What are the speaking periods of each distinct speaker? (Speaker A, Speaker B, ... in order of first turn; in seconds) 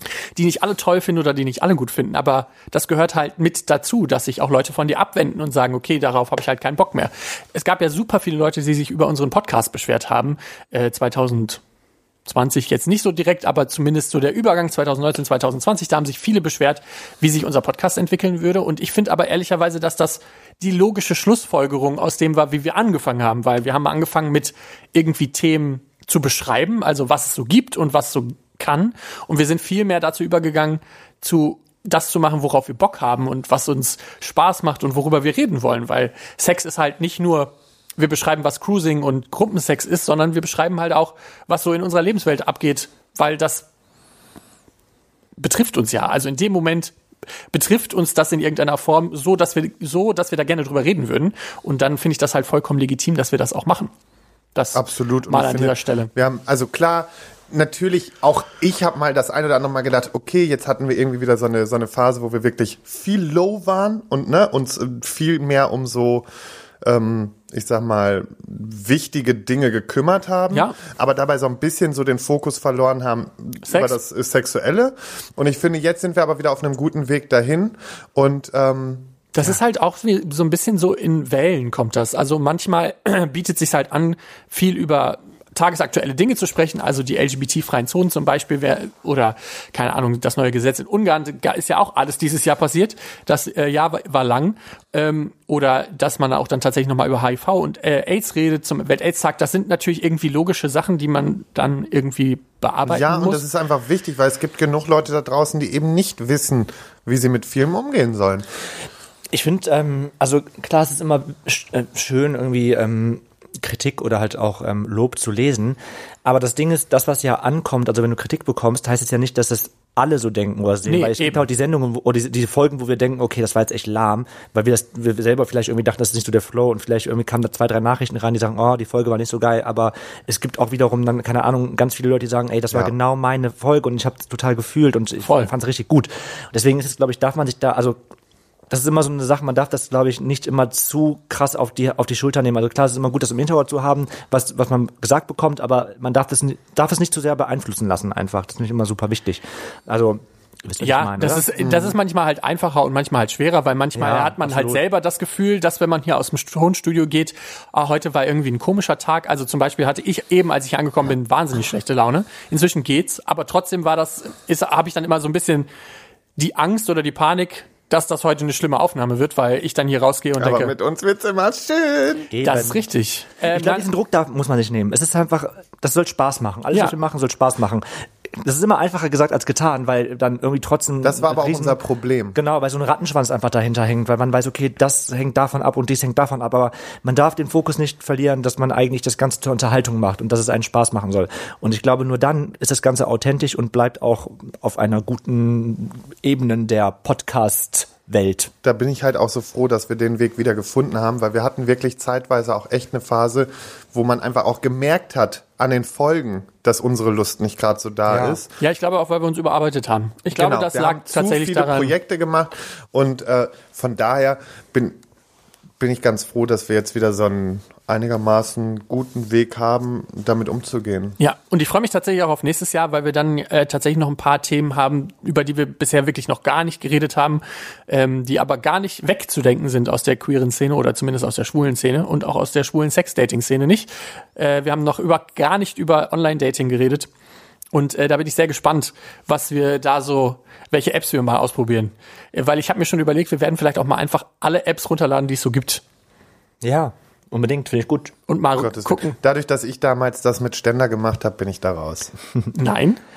Speaker A: 0.3-11.6, 12.2-43.6, 45.4-46.9, 47.5-53.9, 54.5-56.1, 73.7-74.0, 79.3-103.4, 120.8-121.4, 135.2-135.5, 150.8-165.7, 166.4-170.7, 172.4-173.9, 208.6-211.9, 221.2-237.1, 237.7-245.8, 248.3-249.2, 252.5-253.0
Speaker B: 54.7-66.3, 66.8-79.3, 102.8-108.5, 170.4-172.4, 181.0-182.4, 198.6-208.5, 210.3-215.0, 215.8-221.2, 248.6-252.1
Speaker C: 109.3-138.0, 138.7-151.9, 153.9-154.8, 172.3-172.8, 173.4-181.8, 182.3-198.5, 208.1-208.4, 246.6-248.1